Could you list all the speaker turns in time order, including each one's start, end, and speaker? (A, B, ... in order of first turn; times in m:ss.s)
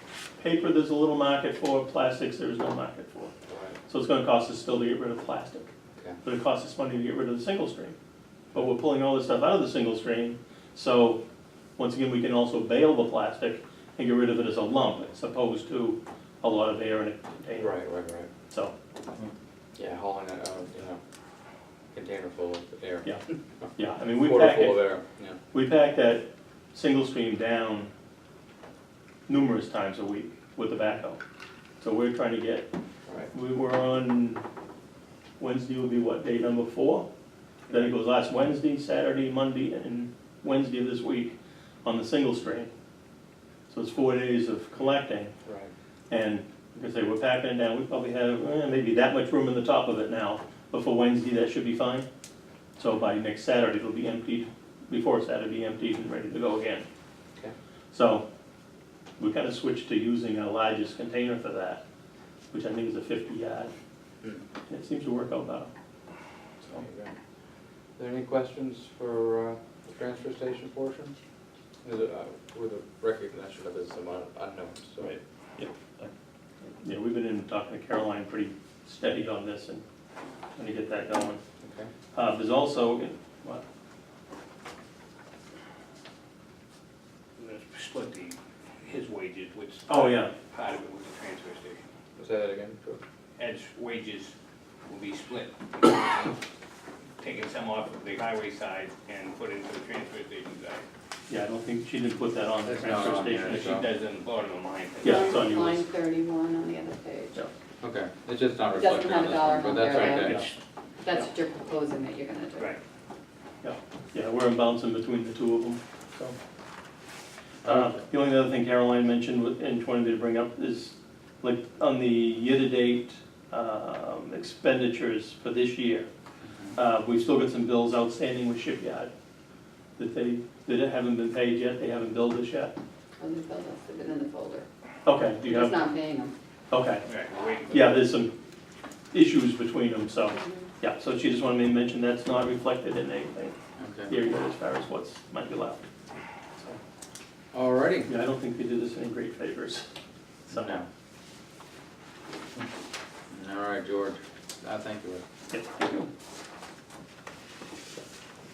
0:00.4-0:03.3 A
0:03.5-0:03.8 B
0:03.9-0:05.7 A
0:06.2-0:07.9 A
0:08.5-0:11.2 A
0:11.8-0:17.7 A
0:17.5-0:18.3 B
0:19.8-0:21.0 B
0:21.9-0:25.4 B
0:23.8-0:25.0 A
0:25.5-0:27.9 A
0:29.3-0:31.2 A
0:31.8-0:32.7 A
0:33.3-0:34.4 A
0:35.4-0:37.1 A
0:37.7-0:42.7 A
0:43.7-0:45.3 A
0:45.4-0:45.7 B
0:46.1-0:52.1 A
0:52.8-0:56.8 A
0:57.9-0:58.2 A
0:59.2-1:01.8 A
1:02.5-1:03.7 A
1:04.7-1:05.7 A
1:06.6-1:07.1 B
1:08.0-1:11.1 B
1:11.8-1:15.2 B
1:16.7-1:19.8 A
1:20.6-1:21.4 A
1:21.6-1:21.9 B
1:22.1-1:23.6 A
1:27.4-1:31.9 C
1:29.9-1:30.3 A
1:32.2-1:33.0 B
1:33.4-1:34.3 C
1:34.9-1:36.4 C
1:37.2-1:40.8 C
1:41.3-1:43.8 A
1:42.6-1:43.9 B
1:42.9-1:45.3 C
1:45.0-1:45.8 A
1:45.0-1:47.4 D
1:47.8-1:50.4 B
1:48.7-1:50.4 D
1:49.9-1:50.5 C
1:50.2-1:50.5 A
1:51.0-1:52.8 D
1:53.6-1:56.4 A
1:57.6-1:58.0 B
1:57.6-2:06.1 A
2:06.4-2:06.8 B
2:06.7-2:09.1 A
2:10.0-2:12.8 A
2:13.2-2:14.7 D
2:15.0-2:15.8 A
2:15.4-2:16.4 D
2:16.7-2:17.0 A
2:17.0-2:18.1 C
2:17.7-2:18.3 A
2:19.1-2:23.6 A
2:20.3-2:20.7 D
2:23.8-2:24.2 B
2:24.1-2:25.9 A
2:27.5-2:28.1 B
2:28.1-2:29.9 A
2:30.5-2:30.7 A
2:30.5-2:30.9 B
2:33.3-2:35.2 B
2:35.5-2:36.1 A